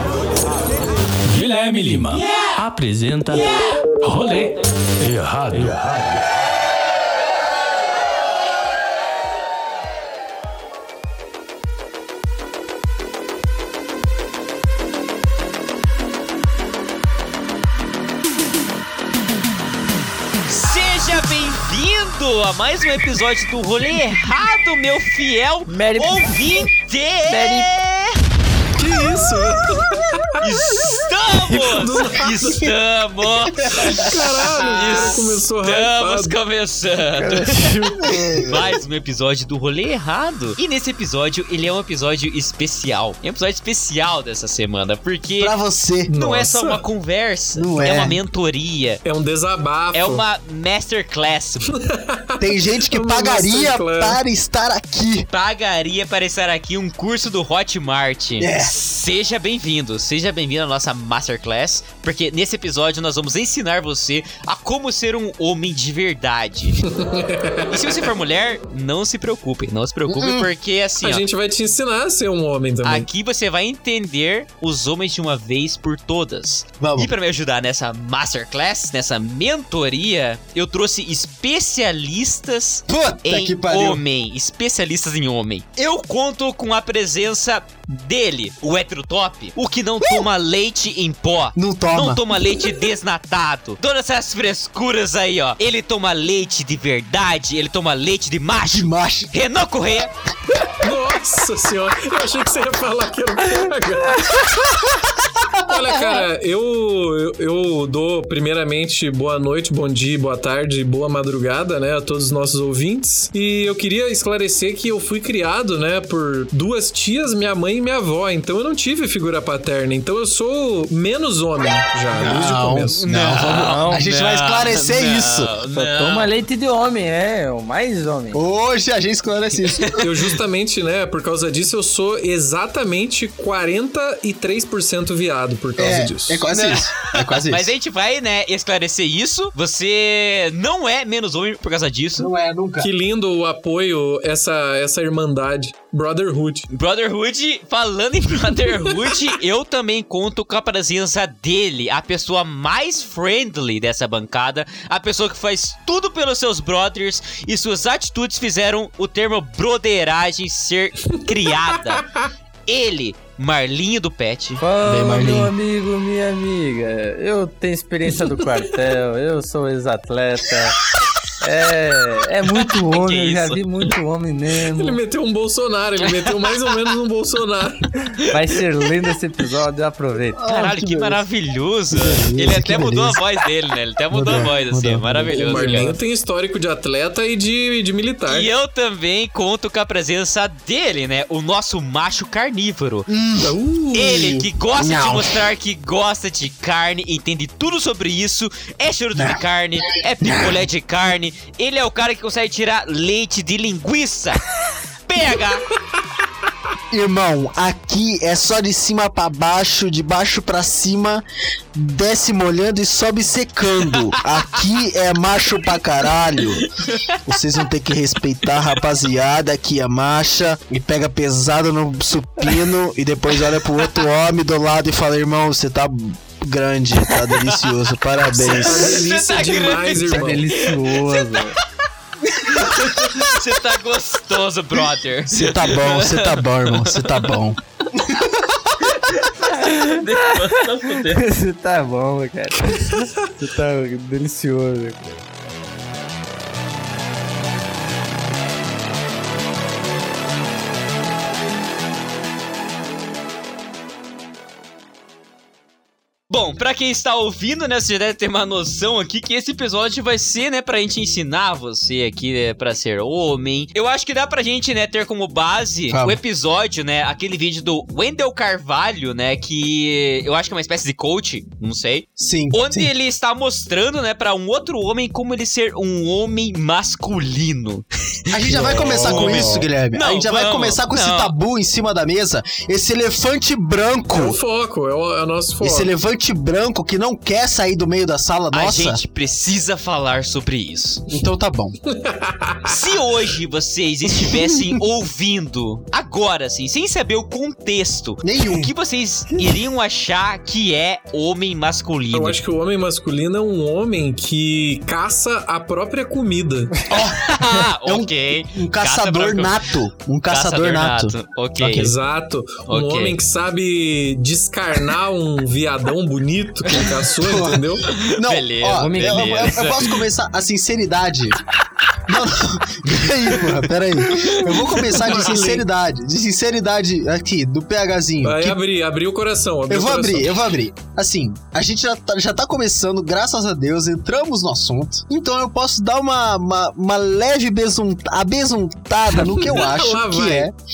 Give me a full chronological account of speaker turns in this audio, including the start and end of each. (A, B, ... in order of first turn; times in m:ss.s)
0:01.3-0:06.3 A
0:20.5-0:28.2 B
0:25.7-0:26.4 C
0:27.3-0:27.7 C
0:28.8-0:30.4 D
0:30.4-0:45.6 B
0:31.5-0:32.7 D
0:33.6-0:34.2 E
0:33.7-0:36.4 D
0:37.2-0:38.4 C
0:38.0-0:38.7 E
0:45.4-0:46.1 E
0:46.1-0:46.8 D
0:46.1-0:49.0 B
0:47.5-0:48.2 E
0:49.0-0:50.2 D
0:49.9-0:51.8 B
0:51.7-0:54.2 D
0:52.4-0:55.3 E
0:55.3-1:06.9 B
0:58.4-0:58.8 E
1:07.0-1:07.8 D
1:07.7-1:11.2 B
1:10.1-1:10.5 E
1:11.0-1:13.1 D
1:12.8-1:40.1 B
1:16.8-1:17.1 E
1:22.9-1:24.0 E
1:30.0-1:30.3 E
1:31.6-1:32.8 E
1:38.7-1:39.3 E
1:40.8-1:44.7 D
1:45.6-2:03.0 D
2:02.1-2:05.5 E
2:03.0-2:06.3 B
2:03.5-2:04.1 C
2:05.7-2:08.4 C
2:08.3-2:10.0 E
2:09.7-2:10.0 B
2:10.0-2:16.4 D
2:15.8-2:17.7 E
2:16.4-2:22.3 B
2:22.2-2:22.9 E
2:22.8-2:26.7 D
2:26.7-2:42.1 B
2:41.9-2:42.2 D
2:42.7-2:44.6 B
2:44.6-2:50.8 C
2:44.8-2:45.5 E
2:51.4-2:55.0 C
2:52.7-2:53.6 B
2:54.7-2:57.9 D
2:58.3-3:00.4 C
3:00.4-3:01.2 E
3:00.5-3:06.0 B
3:01.9-3:03.2 E
3:04.1-3:06.0 E
3:05.3-3:08.5 D
3:08.3-3:13.1 B
3:13.1-3:15.5 E
3:13.4-3:14.2 D
3:13.9-3:24.4 B
3:19.2-3:19.4 E
3:20.2-3:20.6 E
3:25.1-3:25.7 B
3:26.9-3:36.7 E
3:33.9-3:34.2 B
3:36.6-3:37.2 B
3:37.3-3:49.1 E
3:47.1-3:47.8 B
3:48.4-3:51.5 B
3:48.4-3:50.4 D
3:50.0-3:51.6 C
3:52.4-3:57.4 B
3:52.6-3:53.3 E
3:55.3-3:58.9 E
3:58.8-4:01.2 B
3:59.6-4:05.2 C
4:16.3-4:41.3 B
4:25.9-4:26.2 E
4:32.2-4:32.9 E
4:38.3-4:44.4 E
4:38.4-4:39.6 D
4:44.1-4:45.9 D
4:45.6-4:49.0 E
4:48.5-4:51.0 B
4:51.1-4:51.8 E
4:51.9-4:52.9 D
4:52.7-5:02.4 B
4:54.1-4:54.8 E
4:58.2-4:58.7 E
5:02.1-5:06.8 D
5:06.9-5:11.9 E
5:06.9-5:09.6 B
5:10.3-5:11.9 B
5:11.7-5:17.9 D
5:12.7-5:13.2 B
5:16.7-5:17.0 B
5:17.2-5:21.4 E
5:17.9-5:20.0 B
5:18.7-5:19.6 C
5:22.1-5:28.6 E
5:22.9-5:23.5 B
5:24.1-5:25.1 B
5:24.9-5:25.6 D
5:28.2-5:30.3 D
5:29.7-5:40.6 E
5:39.1-5:40.5 D